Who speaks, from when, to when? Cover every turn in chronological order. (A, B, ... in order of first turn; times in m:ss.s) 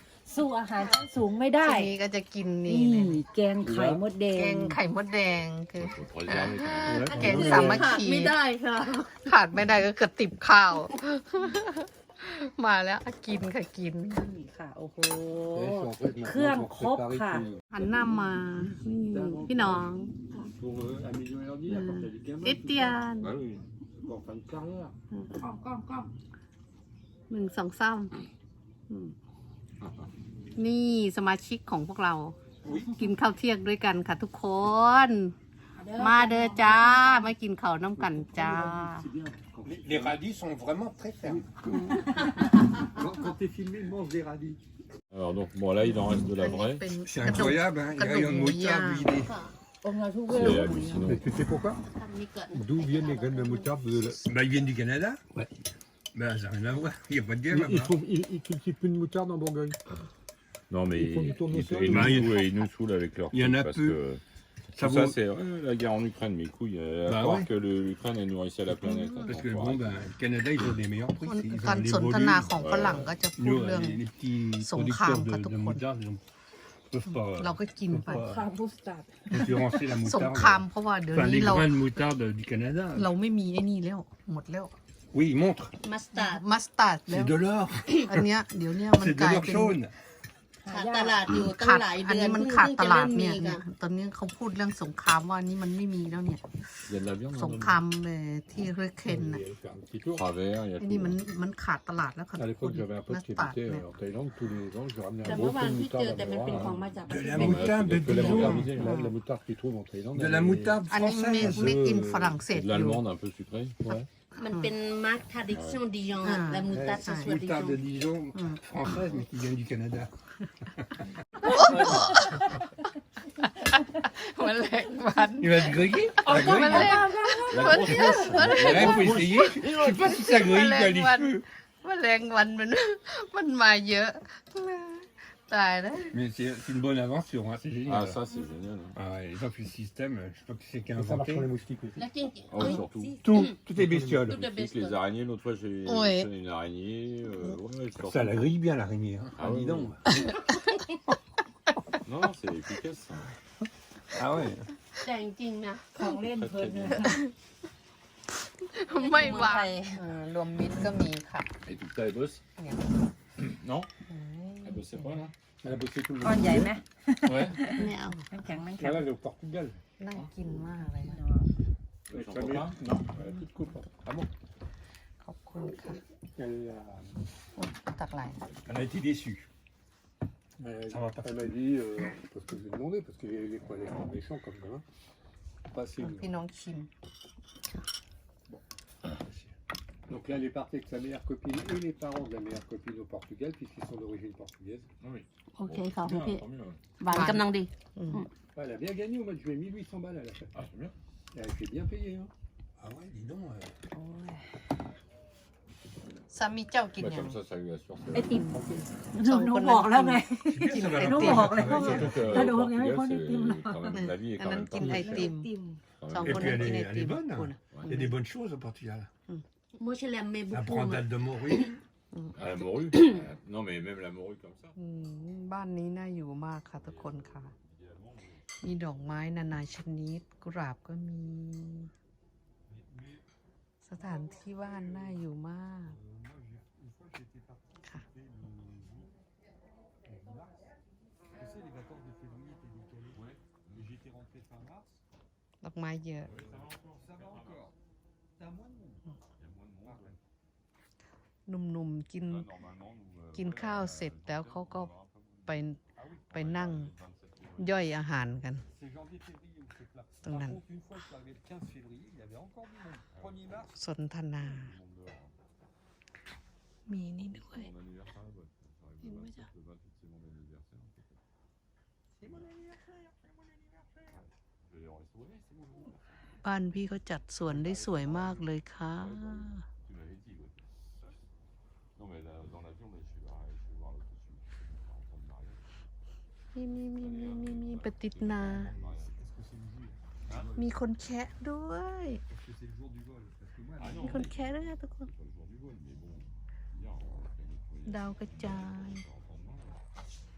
0:00.3-0:01.9 A
0:01.6-0:03.2 B
0:02.6-0:04.8 A
0:03.6-0:04.0 C
0:04.3-0:08.4 B
0:05.8-0:07.7 D
0:07.0-0:09.2 E
0:07.4-0:07.8 C
0:09.2-0:14.2 B
0:14.1-0:17.4 A
0:15.5-0:17.6 C
0:17.7-0:20.1 B
0:19.1-0:19.8 C
0:20.5-0:23.0 C
0:21.7-0:23.3 B
0:23.2-0:23.6 D
0:24.0-0:24.9 C
0:25.4-0:26.1 A
0:27.3-0:28.1 B
0:28.9-0:29.1 B
0:29.8-0:30.1 D
0:30.6-0:35.3 B
0:35.8-0:37.3 A
0:36.0-0:37.7 B
0:36.0-0:39.1 E
0:39.2-0:40.2 C
0:39.6-0:41.5 F
0:41.4-0:42.0 C
0:41.9-0:42.4 A
0:42.8-0:44.6 C
0:45.1-0:46.9 D
0:46.3-0:49.3 B
0:47.0-0:49.3 F
0:49.2-0:49.5 E
0:49.8-0:51.2 A
0:50.3-0:51.3 D
0:51.0-0:51.8 C
0:51.9-0:53.7 E
0:52.5-0:54.2 C
0:54.2-0:55.2 F
0:56.1-0:57.9 F
0:57.5-0:59.8 C
1:00.7-1:04.2 D
1:00.9-1:02.3 C
1:01.8-1:02.4 F
1:03.3-1:04.0 F
1:04.7-1:10.1 D
1:04.8-1:05.2 F
1:07.0-1:07.5 F
1:08.8-1:09.4 B
1:09.3-1:12.5 F
1:11.2-1:14.0 B
1:12.6-1:13.2 D
1:13.3-1:16.2 F
1:14.6-1:15.8 B
1:16.9-1:17.5 F
1:17.1-1:18.3 B
1:18.0-1:19.8 A
1:18.0-1:18.4 F
1:19.3-1:23.1 F
1:20.0-1:22.0 B
1:22.9-1:24.7 B
1:25.1-1:25.7 F
1:25.8-1:26.4 E
1:26.1-1:27.3 B
1:27.1-1:28.1 F
1:28.0-1:29.8 B
1:28.9-1:29.9 F
1:30.6-1:31.4 A
1:30.6-1:33.6 E
1:31.5-1:36.4 B
1:36.9-1:37.8 D
1:37.3-1:39.4 B
1:39.0-1:40.2 C
1:40.1-1:41.2 D
1:40.8-1:43.9 B
1:42.4-1:43.2 C
1:43.1-1:50.7 D
1:45.2-1:45.5 C
1:45.2-1:47.9 E
1:47.1-1:48.8 F
1:48.0-1:49.2 B
1:48.1-1:50.7 C
1:50.1-1:51.9 F
1:50.9-1:53.0 B
1:51.4-1:52.2 C
1:52.5-1:54.0 D
1:54.4-1:57.8 E
1:55.5-1:55.8 D
1:56.2-1:57.4 B
1:56.7-2:00.1 F
1:58.3-1:58.6 B
2:01.4-2:02.6 B
2:03.4-2:16.2 B
2:05.4-2:07.2 F
2:06.2-2:08.2 A
2:07.5-2:10.1 D
2:08.4-2:11.4 F
2:16.1-2:18.2 F
2:17.8-2:19.0 D
2:18.9-2:21.5 F
2:21.0-2:22.0 C
2:22.0-2:22.8 E
2:22.5-2:28.5 D
2:23.2-2:24.4 F
2:24.2-2:25.0 E
2:25.8-2:26.3 B
2:28.0-2:30.0 F
2:29.3-2:30.0 D
2:29.5-2:29.9 C
2:30.2-2:30.7 B
2:32.0-2:33.3 D
2:34.1-2:34.7 F
2:35.0-2:35.9 E
2:35.9-2:37.2 A
2:36.3-2:37.0 D
2:38.6-2:41.5 B
2:38.9-2:40.0 E
2:41.6-2:42.4 D
2:42.6-2:42.9 B
2:43.4-2:43.9 D
2:44.1-2:45.2 B
2:44.6-2:45.3 D
2:45.6-2:46.7 C
2:46.2-2:49.1 A
2:47.2-2:47.7 D
2:47.8-2:48.2 E
2:48.8-2:49.8 C
2:50.0-2:51.2 B
2:50.7-2:51.5 A
2:52.1-2:53.4 D
2:52.1-2:54.3 C
2:55.2-2:56.0 B
2:56.4-2:57.2 C
2:57.6-2:58.4 B
2:58.6-2:59.4 F
3:00.6-3:04.8 C
3:00.9-3:01.5 F
3:05.7-3:06.3 C
3:06.0-3:06.9 B
3:10.1-3:14.9 C
3:15.0-3:16.8 D
3:15.6-3:16.4 E
3:17.0-3:18.3 E
3:17.1-3:18.2 B
3:18.6-3:20.5 C
3:20.5-3:20.9 D
3:21.3-3:22.3 C
3:22.8-3:23.7 F
3:23.9-3:24.5 A
3:26.3-3:27.4 B
3:27.0-3:28.6 D
3:28.1-3:34.0 A
3:28.4-3:32.0 B
3:30.4-3:32.5 F
3:31.6-3:35.3 D
3:33.9-3:35.5 B
3:34.8-3:35.8 A
3:36.0-3:36.8 D
3:36.1-3:38.1 B
3:36.2-3:39.1 F
3:37.6-3:38.0 D
3:39.8-3:41.7 E
3:40.5-3:41.6 F
3:42.4-3:44.7 D
3:44.8-3:47.5 B
3:46.8-3:48.3 D
3:48.6-3:51.9 B
3:53.8-3:56.0 B
3:56.2-3:57.6 C
3:58.3-3:58.9 C
4:00.3-4:00.6 C
4:01.4-4:03.2 C
4:03.1-4:04.0 D
4:03.8-4:04.9 C
4:05.6-4:06.3 B
4:06.2-4:07.7 D
4:07.0-4:07.6 C
4:08.4-4:09.0 C
4:09.4-4:10.2 D
4:11.5-4:12.5 B
4:12.2-4:15.2 D
4:13.3-4:14.9 B
4:15.5-4:15.8 B
4:16.3-4:16.9 B
4:16.3-4:17.7 D
4:17.6-4:18.6 B
4:18.8-4:23.7 C
4:20.2-4:20.6 B
4:23.1-4:23.7 D
4:23.8-4:24.7 B
4:24.4-4:25.3 D
4:26.9-4:27.7 B
4:27.3-4:31.2 D
4:29.0-4:29.5 B
4:32.2-4:32.5 D
4:34.6-4:35.7 D
4:36.4-4:39.6 B
4:37.5-4:38.4 D
4:39.0-4:40.6 D
4:42.0-4:45.6 D
4:46.5-4:48.7 B
4:47.0-4:49.2 D
4:49.4-4:49.9 C
4:50.6-4:52.2 B
4:52.4-4:54.0 C
4:53.8-4:59.8 D
4:53.9-4:55.1 B
4:57.8-4:59.0 B